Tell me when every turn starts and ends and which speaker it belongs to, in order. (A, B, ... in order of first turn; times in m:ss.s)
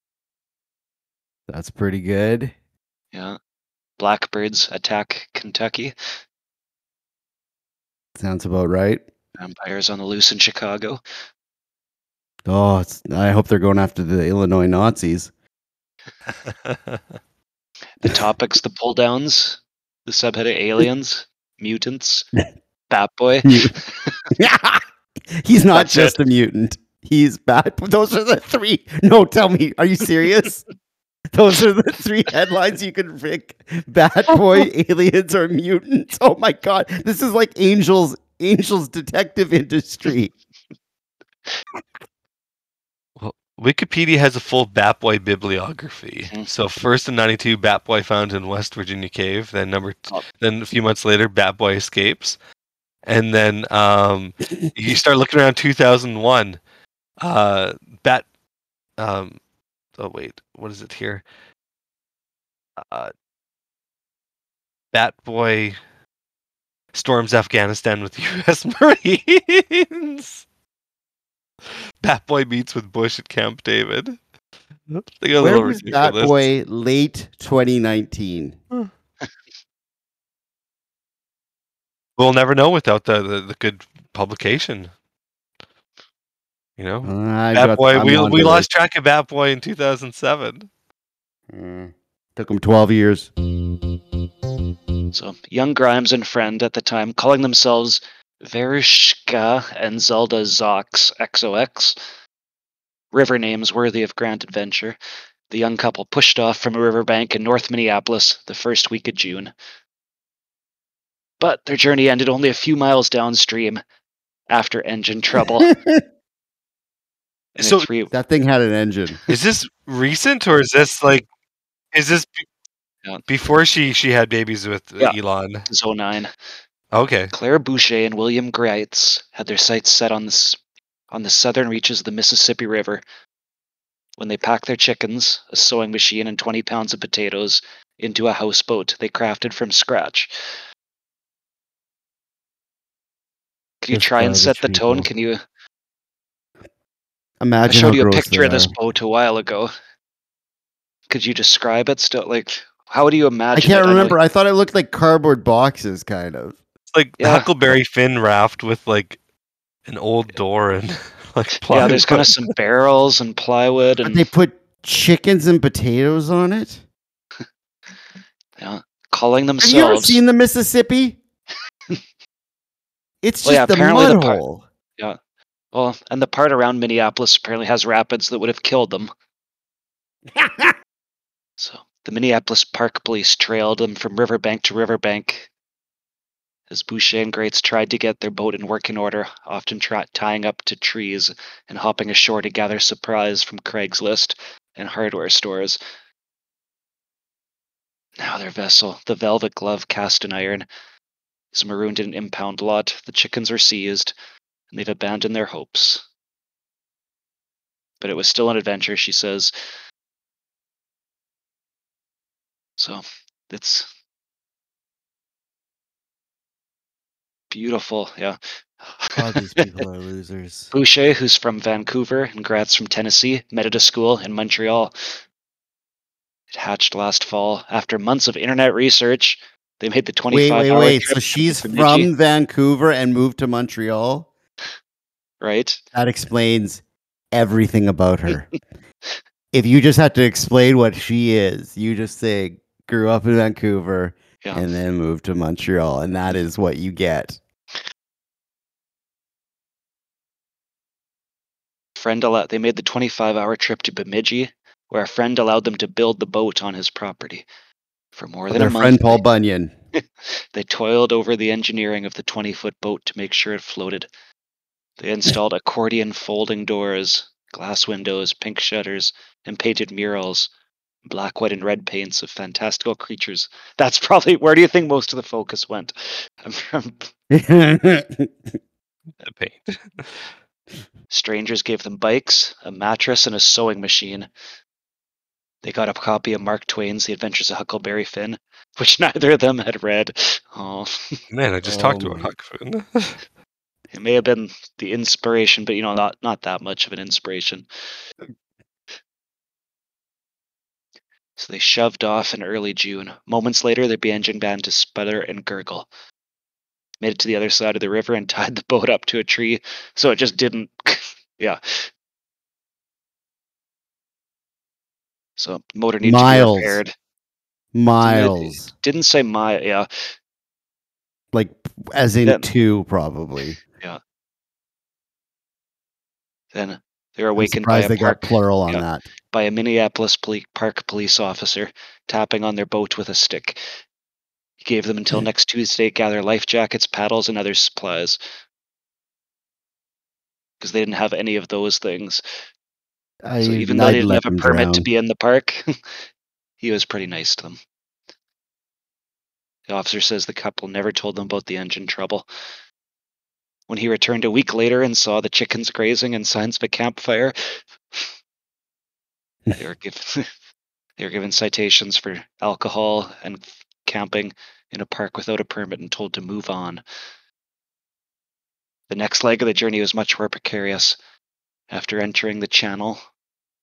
0:01.5-0:02.5 A
0:04.0-0:05.9 B
0:08.2-0:09.0 A
0:09.4-0:11.0 B
0:12.4-0:15.3 A
0:16.4-0:17.0 C
0:18.0-0:22.3 B
0:22.9-0:24.2 B
0:23.4-0:23.7 A
0:24.4-0:24.8 A
0:25.4-0:30.6 A
0:25.7-0:26.2 B
0:31.3-0:40.3 A
0:43.2-0:52.4 C
0:53.0-0:56.6 C
0:57.2-0:58.2 C
0:59.0-0:59.4 C
1:00.0-1:01.2 C
1:02.8-1:03.1 C
1:04.9-1:05.8 C
1:06.9-1:10.4 C
1:12.0-1:14.2 C
1:14.9-1:16.4 C
1:15.4-1:18.6 A
1:22.2-1:24.9 C
1:26.8-1:30.7 C
1:27.0-1:28.7 A
1:31.5-1:33.3 A
1:35.1-1:42.0 B
1:43.1-1:45.0 B
1:45.5-1:49.5 B
1:51.4-1:53.8 B
1:54.5-1:55.7 B
1:55.4-1:56.0 A
1:57.6-1:57.9 C
1:57.6-1:58.1 B
1:58.1-1:59.2 A
1:59.3-2:01.3 C
2:01.9-2:02.4 C
2:03.3-2:05.7 C
2:05.7-2:06.3 B
2:06.9-2:07.3 C
2:07.3-2:10.6 B
2:11.1-2:13.0 B
2:14.2-2:20.3 B
2:23.8-2:25.4 B
2:23.9-2:25.1 A
2:27.4-2:28.7 A
2:27.6-2:29.7 B
2:31.1-2:34.2 B
2:33.5-2:36.6 A
2:36.9-2:39.2 C
2:37.2-2:37.5 B
2:39.8-2:42.5 C
2:41.7-2:44.2 B
2:44.0-2:46.8 A
2:48.6-2:50.2 B
2:49.6-2:51.2 A
2:53.2-2:54.6 A
2:53.4-2:54.4 B
2:55.7-2:59.1 B
3:00.3-3:00.7 A
3:01.6-3:05.5 B
3:06.7-3:15.8 B
3:18.2-3:20.6 B
3:21.5-3:24.1 B
3:24.7-3:26.0 B
3:28.0-3:29.5 B
3:32.8-3:33.9 B
3:37.5-3:39.6 B
3:39.2-3:40.7 A
3:40.7-3:44.9 B
3:46.5-3:52.1 B
3:50.3-3:54.3 A
3:55.4-3:55.8 B
3:55.9-3:58.5 A
3:59.5-4:07.4 A
4:12.0-4:17.4 B
4:18.2-4:19.2 B
4:18.5-4:19.7 A
4:20.0-4:24.1 B
4:25.0-4:30.5 B
4:31.0-4:37.1 B
4:37.3-4:38.5 A
4:39.2-4:40.3 C
4:41.1-4:44.3 B
4:45.6-4:51.2 B
4:51.3-4:53.2 C
4:51.6-4:52.3 A
4:53.9-4:57.7 B
5:01.4-5:05.9 B
5:07.0-5:11.8 B
5:15.4-5:16.9 B
5:16.0-5:16.8 A
5:17.7-5:18.7 A
5:18.0-5:19.9 B
5:21.3-5:23.6 A
5:26.5-5:33.6 B
5:27.4-5:29.0 A
5:34.6-5:38.2 B
5:40.6-5:42.2 B
5:43.2-5:44.8 A
5:43.4-5:45.6 B
5:46.6-5:47.6 B
5:49.7-5:52.3 B
5:53.7-5:58.1 B
5:59.6-6:00.3 B
6:01.0-6:06.8 B
6:08.9-6:11.0 B
6:11.7-6:13.0 B